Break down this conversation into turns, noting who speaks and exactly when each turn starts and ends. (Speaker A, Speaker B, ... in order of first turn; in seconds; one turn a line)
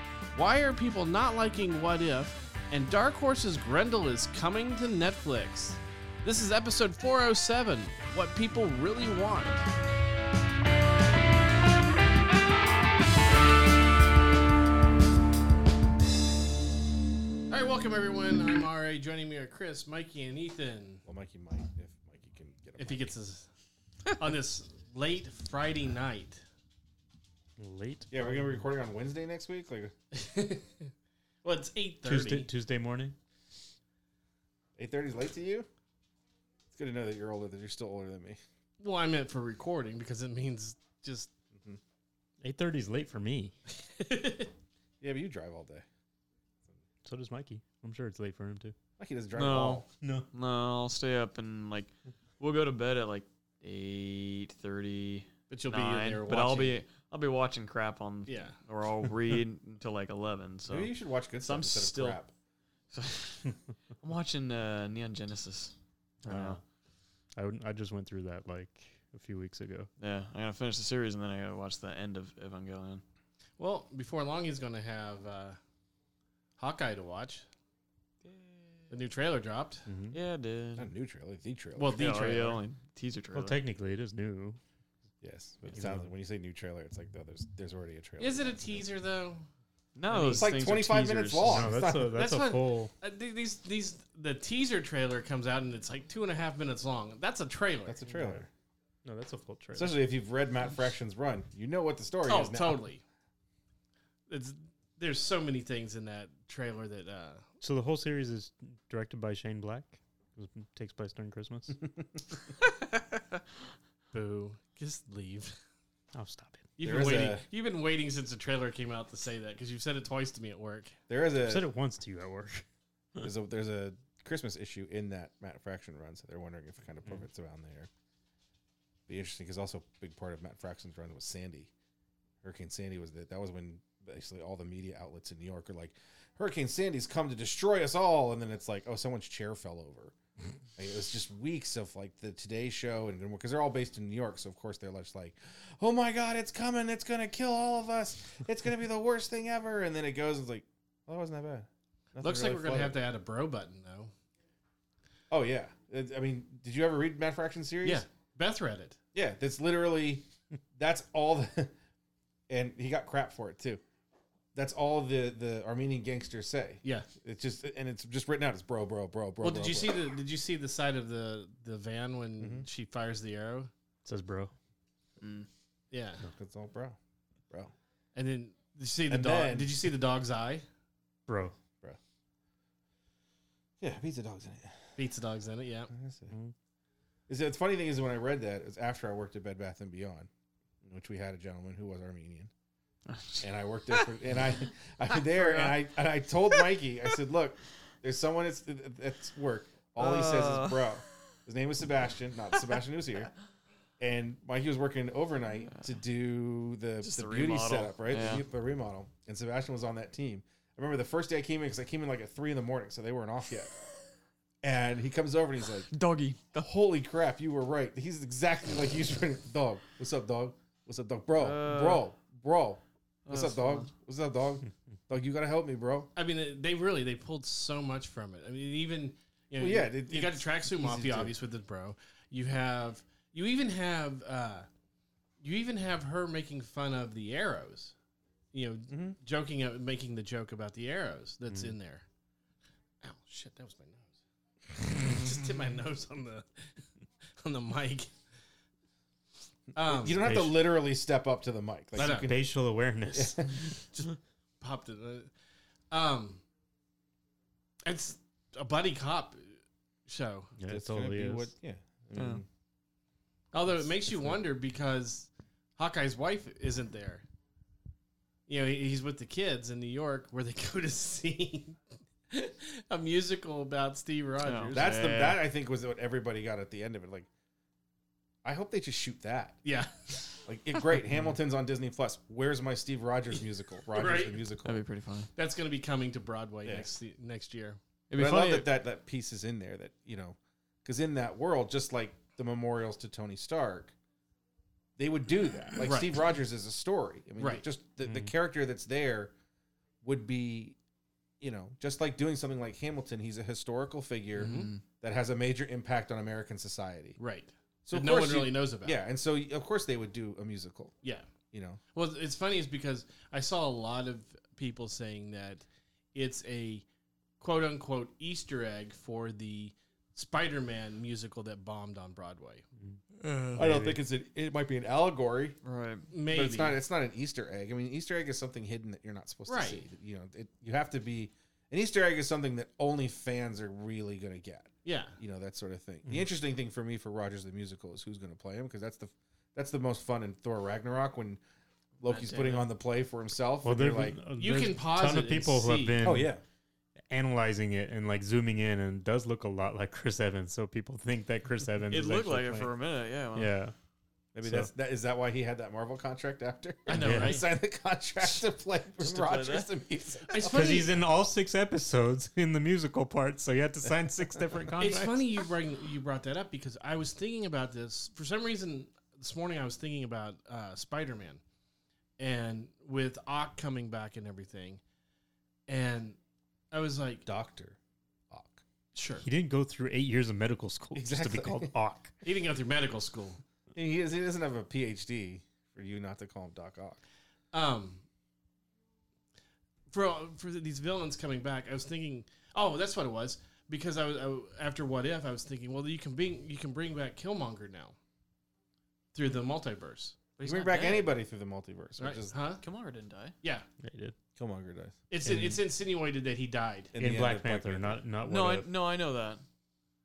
Speaker A: 0.3-9.7
Speaker A: 17.5-21.0
Speaker B: 21.0-23.1
Speaker A: 22.8-23.5
Speaker A: 24.1-26.4
Speaker C: 27.6-28.6
Speaker B: 28.1-29.9
Speaker A: 30.1-30.9
Speaker A: 31.4-32.5
Speaker C: 32.0-33.1
Speaker B: 34.8-35.7
Speaker B: 36.7-38.4
Speaker A: 38.8-41.3
Speaker B: 41.5-41.8
Speaker C: 42.4-43.5
Speaker A: 43.8-44.5
Speaker B: 45.0-45.8
Speaker C: 47.0-48.7
Speaker B: 49.0-49.9
Speaker D: 49.3-62.2
Speaker C: 50.0-50.3
Speaker A: 55.5-56.8
Speaker A: 58.3-58.6
Speaker B: 60.7-62.3
Speaker D: 62.9-65.7
Speaker C: 66.2-66.6
Speaker D: 66.2-66.6
Speaker C: 67.3-69.9
Speaker D: 70.0-73.0
Speaker A: 73.6-75.6
Speaker A: 76.6-77.5
Speaker D: 78.2-78.9
Speaker A: 78.9-79.8
Speaker C: 79.8-80.2
Speaker D: 80.1-80.9
Speaker B: 80.8-82.0
Speaker A: 81.8-82.6
Speaker D: 82.0-83.6
Speaker C: 83.3-84.6
Speaker B: 85.2-88.8
Speaker C: 85.7-86.1
Speaker A: 88.2-89.5
Speaker D: 90.0-91.7
Speaker A: 90.1-90.6
Speaker B: 90.3-92.2
Speaker C: 91.4-92.9
Speaker A: 92.2-98.0
Speaker B: 97.8-98.5
Speaker C: 98.1-98.4
Speaker C: 99.0-99.9
Speaker B: 99.7-102.8
Speaker A: 102.2-103.0
Speaker A: 104.3-107.4
Speaker C: 107.6-111.8
Speaker A: 114.1-115.5
Speaker C: 116.1-116.7
Speaker A: 116.8-121.0
Speaker B: 116.8-117.4
Speaker B: 121.1-121.7
Speaker C: 121.4-122.6
Speaker B: 123.2-127.9
Speaker B: 129.1-131.7
Speaker B: 132.4-140.1
Speaker B: 140.8-153.0
Speaker A: 152.2-154.1
Speaker B: 155.3-158.0
Speaker A: 157.8-159.0
Speaker B: 159.1-161.7
Speaker B: 162.5-163.8
Speaker B: 164.5-170.0
Speaker A: 169.4-173.7
Speaker B: 172.4-172.7
Speaker C: 174.0-174.5
Speaker D: 175.2-175.5
Speaker A: 175.9-176.2
Speaker B: 176.3-177.0
Speaker A: 178.1-180.6
Speaker B: 179.1-179.8
Speaker C: 181.3-181.5
Speaker B: 183.8-184.9
Speaker A: 185.0-185.9
Speaker B: 185.9-186.3
Speaker B: 187.3-190.3
Speaker B: 190.8-192.5
Speaker D: 193.1-194.1
Speaker B: 193.4-203.3
Speaker D: 195.2-195.8
Speaker D: 200.0-201.0
Speaker B: 204.0-213.7
Speaker D: 207.0-208.4
Speaker B: 214.6-215.9
Speaker D: 215.9-216.7
Speaker B: 216.6-226.1
Speaker D: 221.3-222.0
Speaker D: 223.2-223.9
Speaker A: 226.2-234.7
Speaker B: 229.6-231.3
Speaker A: 235.4-237.9
Speaker A: 238.5-242.0
Speaker B: 238.9-239.2
Speaker A: 243.0-244.1
Speaker A: 244.7-246.7
Speaker A: 247.4-248.1
Speaker A: 249.7-250.4
Speaker B: 249.7-252.5
Speaker C: 250.2-250.5
Speaker A: 252.0-252.3
Speaker C: 252.0-253.5
Speaker B: 253.1-253.7
Speaker A: 253.9-255.3
Speaker A: 255.9-256.4
Speaker A: 257.8-260.5
Speaker C: 260.6-261.5
Speaker B: 260.7-262.5
Speaker D: 262.1-262.4
Speaker A: 263.5-267.2
Speaker B: 264.1-264.3
Speaker A: 268.5-271.8
Speaker A: 272.3-274.9
Speaker D: 274.4-275.4
Speaker B: 274.7-277.3
Speaker B: 278.4-279.6
Speaker A: 279.6-280.2
Speaker B: 280.4-284.8
Speaker A: 283.9-284.4
Speaker D: 284.6-285.3
Speaker A: 285.4-287.8
Speaker B: 286.6-286.9
Speaker D: 288.1-288.7
Speaker B: 288.1-293.9
Speaker B: 295.0-299.3
Speaker A: 295.8-296.2
Speaker A: 297.4-297.6
Speaker C: 298.0-298.3
Speaker B: 300.0-300.8
Speaker B: 301.4-307.2
Speaker A: 304.4-304.7
Speaker D: 304.4-304.8
Speaker A: 307.2-309.0
Speaker B: 307.9-310.9
Speaker A: 311.0-311.3
Speaker B: 311.5-311.8
Speaker A: 311.9-316.8
Speaker A: 317.4-322.6
Speaker D: 323.2-323.6
Speaker C: 323.5-324.0
Speaker B: 323.6-325.6
Speaker D: 325.6-326.1
Speaker A: 326.1-326.8
Speaker B: 326.3-341.4
Speaker A: 329.5-329.8
Speaker A: 334.8-335.2
Speaker B: 342.0-344.2
Speaker D: 342.1-342.7
Speaker C: 343.6-346.3
Speaker A: 344.4-346.0
Speaker B: 346.0-346.4
Speaker C: 347.1-352.7
Speaker D: 351.9-353.5
Speaker C: 353.3-353.7
Speaker B: 354.3-360.9
Speaker C: 354.4-354.7
Speaker A: 356.9-357.4
Speaker C: 357.0-357.4
Speaker D: 359.0-359.7
Speaker A: 360.3-360.9
Speaker C: 360.4-365.2
Speaker A: 364.8-371.4
Speaker A: 372.2-374.8
Speaker A: 375.7-376.2
Speaker A: 376.7-377.2
Speaker B: 377.2-377.8
Speaker B: 378.3-378.6
Speaker A: 378.9-379.2
Speaker C: 379.2-382.1
Speaker B: 380.9-381.7
Speaker A: 382.2-383.4
Speaker B: 383.7-387.0
Speaker A: 387.5-388.0
Speaker A: 389.9-397.9
Speaker A: 399.1-400.2
Speaker D: 400.4-401.1
Speaker B: 400.4-402.3
Speaker A: 402.0-402.6
Speaker D: 402.6-403.3
Speaker C: 403.8-404.1
Speaker B: 404.4-405.0
Speaker A: 405.1-406.9
Speaker C: 405.2-405.6
Speaker B: 406.9-408.0
Speaker C: 407.0-408.7
Speaker D: 408.2-409.4